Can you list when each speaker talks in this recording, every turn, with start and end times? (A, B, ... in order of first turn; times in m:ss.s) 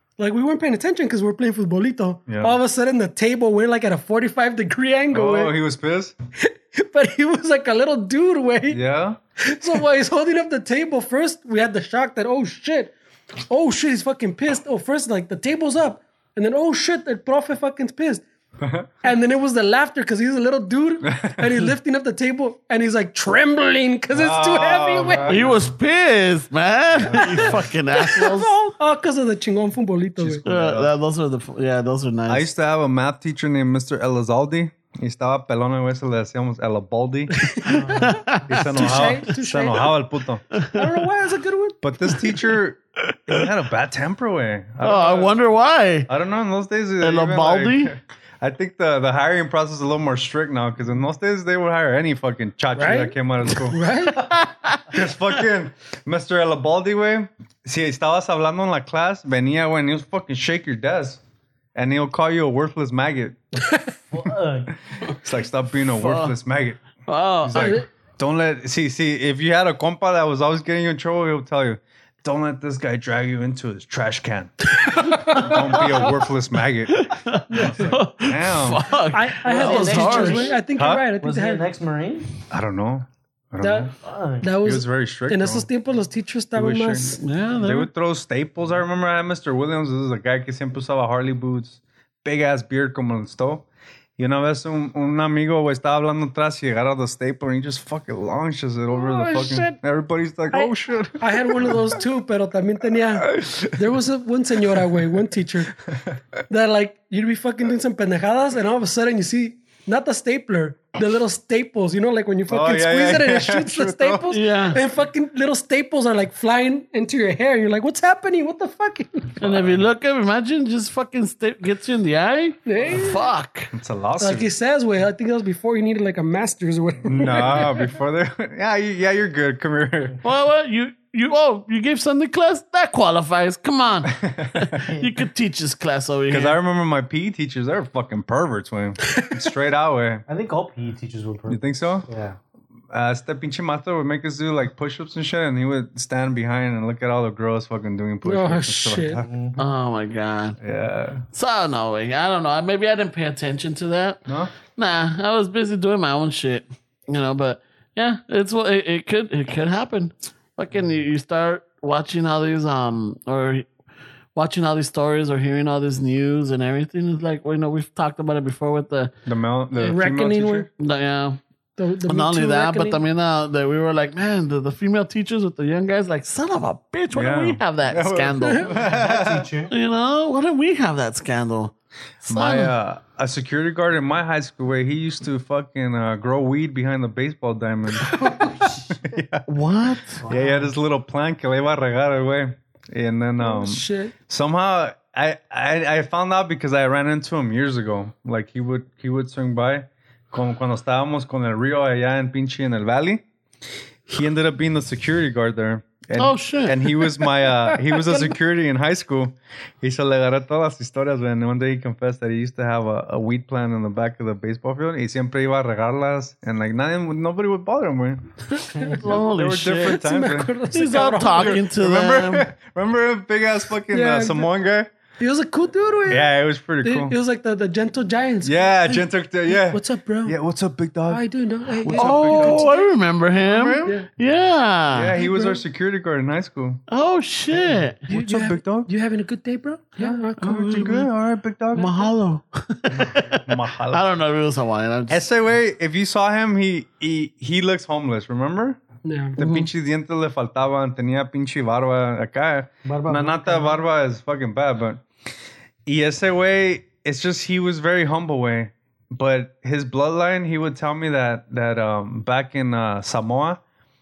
0:00.2-0:05.6 A
0:02.3-0:02.6 B
0:05.1-0:06.1 B
0:06.4-0:08.8 A
0:08.7-0:09.2 B
0:09.4-0:12.9 A
0:13.5-0:18.2 A
0:18.6-0:18.9 B
0:19.0-0:25.4 A
0:21.1-0:21.5 B
0:24.1-0:25.7 B
0:25.2-0:28.5 C
0:27.0-0:27.6 B
0:27.1-0:30.4 A
0:30.2-0:30.9 B
0:30.4-0:32.5 C
0:32.3-0:37.6 B
0:37.5-0:39.9 A
0:37.6-0:38.2 D
0:37.7-0:38.4 C
0:38.5-0:40.4 B
0:40.5-0:40.9 C
0:40.7-0:41.8 A
0:41.8-0:45.3 B
0:42.1-0:42.4 C
0:44.8-0:46.1 C
0:46.1-0:53.8 B
0:47.0-0:47.9 C
0:52.8-0:54.2 A
0:54.1-0:55.0 C
0:54.9-1:01.2 B
1:01.8-1:03.4 B
1:04.1-1:04.7 D
1:05.1-1:18.8 B
1:06.0-1:06.4 C
1:07.1-1:07.7 C
1:07.6-1:07.9 A
1:14.8-1:16.0 A
1:17.0-1:20.6 C
1:17.5-1:18.0 A
1:19.1-1:21.6 A
1:19.5-1:22.3 D
1:20.8-1:21.1 B
1:22.5-1:23.9 B
1:23.6-1:23.9 A
1:24.0-1:24.5 D
1:24.4-1:27.2 A
1:24.6-1:25.7 B
1:26.6-1:33.7 B
1:27.2-1:27.9 C
1:34.2-1:41.8 B
1:38.9-1:39.8 A
1:40.5-1:45.8 A
1:43.2-1:43.7 B
1:45.9-1:46.2 B
1:46.5-1:59.4 A
1:52.5-1:54.4 B
1:54.3-1:54.8 C
1:59.4-2:03.7 C
1:59.5-1:59.8 B
2:02.7-2:03.3 A
2:03.7-2:04.5 B
2:04.2-2:07.8 A
2:07.1-2:10.2 B
2:10.2-2:16.6 C
2:14.2-2:14.7 B
2:16.3-2:20.2 B
2:20.3-2:22.4 D
2:21.5-2:22.1 B
2:22.9-2:29.3 B
2:28.2-2:29.2 A
2:29.2-2:29.6 D
2:29.6-2:30.6 C
2:30.6-2:31.2 B
2:31.3-2:43.7 C
2:34.3-2:34.5 B
2:44.4-2:49.1 C
2:49.3-2:50.7 B
2:49.8-2:50.7 A
2:50.8-2:51.4 C
2:51.8-2:53.0 A
2:52.1-2:58.8 C
2:57.1-2:59.5 B
2:58.7-2:59.7 D
2:59.7-3:02.7 C
3:02.3-3:09.5 B
3:08.0-3:08.5 A
3:08.4-3:08.9 D
3:09.5-3:10.2 C
3:10.2-3:10.7 D
3:10.3-3:23.2 B
3:13.4-3:14.1 A
3:24.1-3:38.2 B
3:26.2-3:26.9 C
3:27.7-3:28.3 A
3:38.5-3:39.0 A
3:38.9-3:40.0 C
3:38.9-3:40.6 B
3:39.7-3:41.6 A
3:40.7-3:42.5 C
3:41.3-3:44.9 B
3:43.9-3:44.5 A
3:45.2-3:50.4 A
3:46.1-3:47.2 B
3:48.4-3:51.2 B
3:51.1-3:52.9 A
3:51.7-3:52.7 B
3:51.9-3:55.2 C
3:53.4-3:54.0 B
3:54.9-3:56.8 B
3:55.1-3:55.6 A
3:56.9-3:58.1 C
3:58.1-3:58.9 B
3:58.1-4:01.1 A
4:00.4-4:02.0 B
4:00.4-4:01.1 C
4:01.7-4:05.2 C
4:03.0-4:03.3 D
4:03.4-4:04.0 B
4:05.1-4:08.8 B
4:09.0-4:09.4 A
4:09.4-4:15.0 B
4:09.4-4:09.7 C
4:12.8-4:13.8 D
4:15.9-4:23.6 B